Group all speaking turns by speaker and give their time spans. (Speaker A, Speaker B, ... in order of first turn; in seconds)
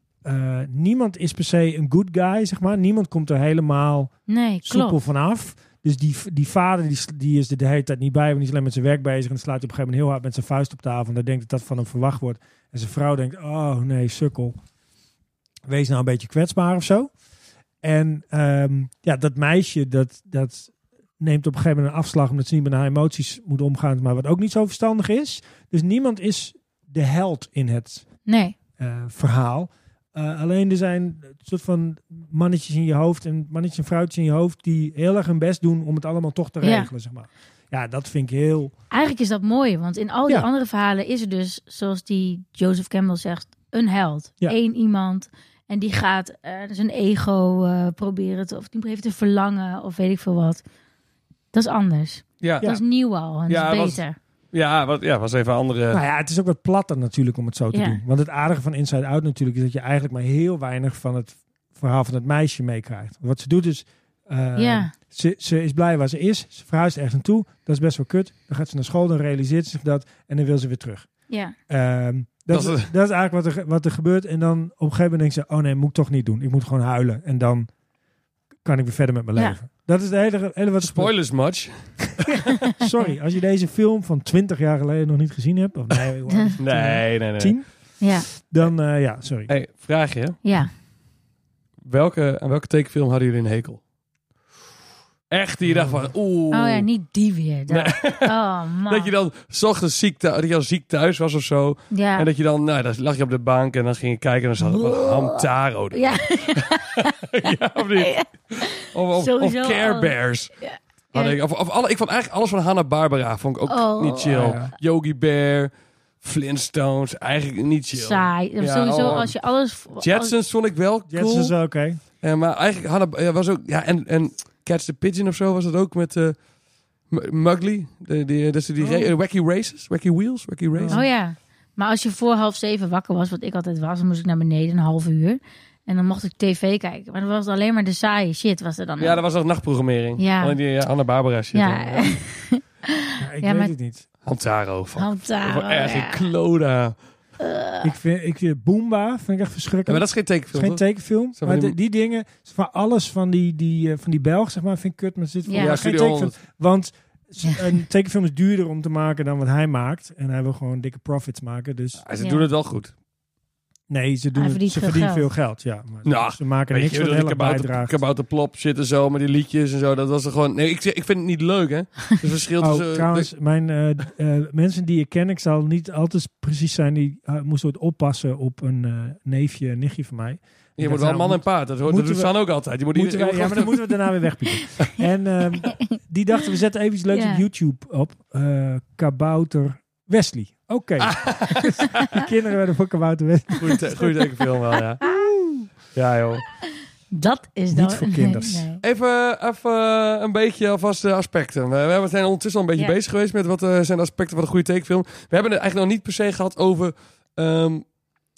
Speaker A: 0.2-14.6, 15.7-17.1, 17.8-28.1, 28.8-38.7, 55.9-71.1, 71.7-77.7, 78.6-81.1, 82.7-87.7, 88.3-89.5, 95.6-96.1, 114.3-114.7, 121.1-122.0, 128.8-129.1, 130.7-131.1, 143.2-144.1, 147.8-162.0, 163.9-167.9, 172.6-182.3, 182.9-194.2, 195.0-195.6, 197.7-198.7
Speaker B: 4.3-5.0, 28.3-28.5, 36.6-36.9, 38.9-50.6, 51.5-54.1, 57.7-58.0, 64.5-64.9, 71.3-71.5, 86.3-86.6, 88.0-88.3, 90.4-90.7, 96.5-99.1, 101.9-102.3, 104.6-111.4, 113.7-114.7, 117.9-120.3, 130.9-139.2, 140.2-140.6, 141.5-142.6, 143.4-143.7, 145.0-146.2, 147.4-147.9, 155.4-155.8, 157.4-157.7, 162.2-162.4, 164.3-165.3, 185.6-185.9, 187.1-187.4, 195.0-195.3, 197.1-198.8
Speaker C: 52.4-52.7, 53.5-54.0, 54.5-56.0, 72.5-72.9, 80.8-82.4, 86.6-87.6, 89.5-90.4, 91.8-93.8, 95.3-96.9, 97.7-98.3, 98.9-110.5, 111.1-115.7, 116.2-119.3, 120.0-121.5, 122.2-126.4, 127.1-131.0, 139.0-142.1, 144.2-146.9, 149.9-150.8, 151.3-151.8, 155.5-156.3, 162.0-162.9, 166.0-173.3, 180.8-183.8, 191.0-192.0, 193.6-195.0, 195.9-196.4, 198.8-207.8